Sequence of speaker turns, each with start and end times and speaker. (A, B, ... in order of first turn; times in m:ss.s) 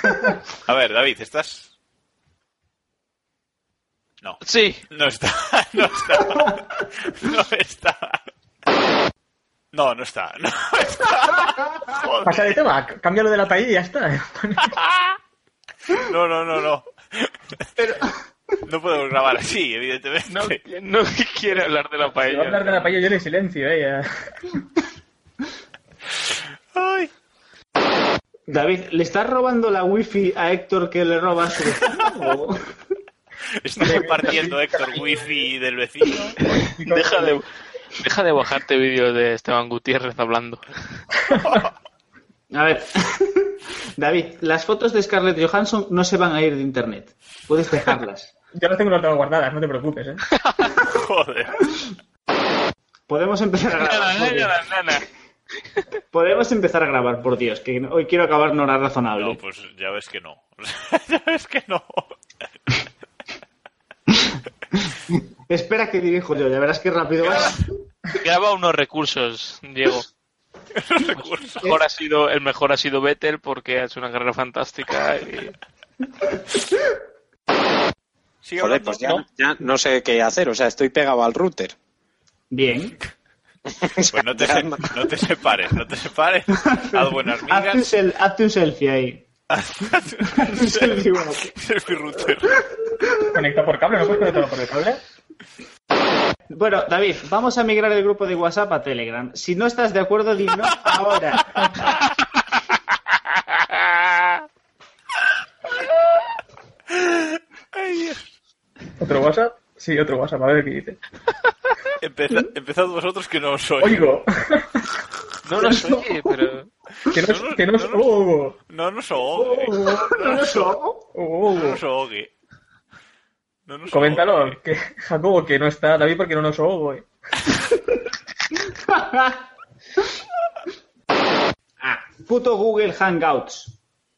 0:00.6-0:01.7 A
0:04.2-0:08.2 A
0:04.4-0:04.8 B
0:09.7-0:12.6 A
0:12.2-0:14.7 C
0:16.0-0:17.3 A
0:17.8-0:18.1 D
0:18.6-0:20.6 A
0:20.3-0:23.0 B
0:22.2-0:24.3 C
0:26.7-0:27.1 A
0:28.5-0:32.7 D
0:33.6-0:36.4 A
0:33.8-0:34.6 C
0:36.4-0:37.4 B
0:36.9-0:37.2 C
0:38.0-0:40.6 B
0:42.5-0:48.3 D
0:48.6-0:50.2 C
0:50.9-0:51.7 A
0:53.1-0:54.6 D
0:53.7-0:55.0 B
0:56.1-0:59.4 D
0:59.2-1:02.1 A
1:05.1-1:07.6 D
1:08.2-1:10.1 B
1:10.7-1:11.8 A
1:11.2-1:15.5 B
1:18.4-1:19.2 A
1:18.6-1:21.7 E
1:22.5-1:23.0 D
1:23.7-1:25.0 E
1:24.1-1:27.8 A
1:26.7-1:29.2 D
1:29.5-1:32.6 A
1:30.3-1:31.5 D
1:33.3-1:35.0 C
1:36.5-1:41.9 D
1:46.9-1:48.3 A
1:49.0-1:51.0 C
1:52.0-1:54.1 A
1:53.8-1:54.8 C
1:55.4-1:56.7 B
1:55.6-1:56.0 D
1:57.1-1:58.6 C
1:57.2-1:58.1 A
1:58.7-2:00.7 A
1:59.3-2:01.1 D
2:01.1-2:01.8 C
2:01.5-2:02.3 A
2:03.7-2:04.6 A
2:03.9-2:07.0 C
2:08.8-2:09.4 D
2:11.8-2:13.7 D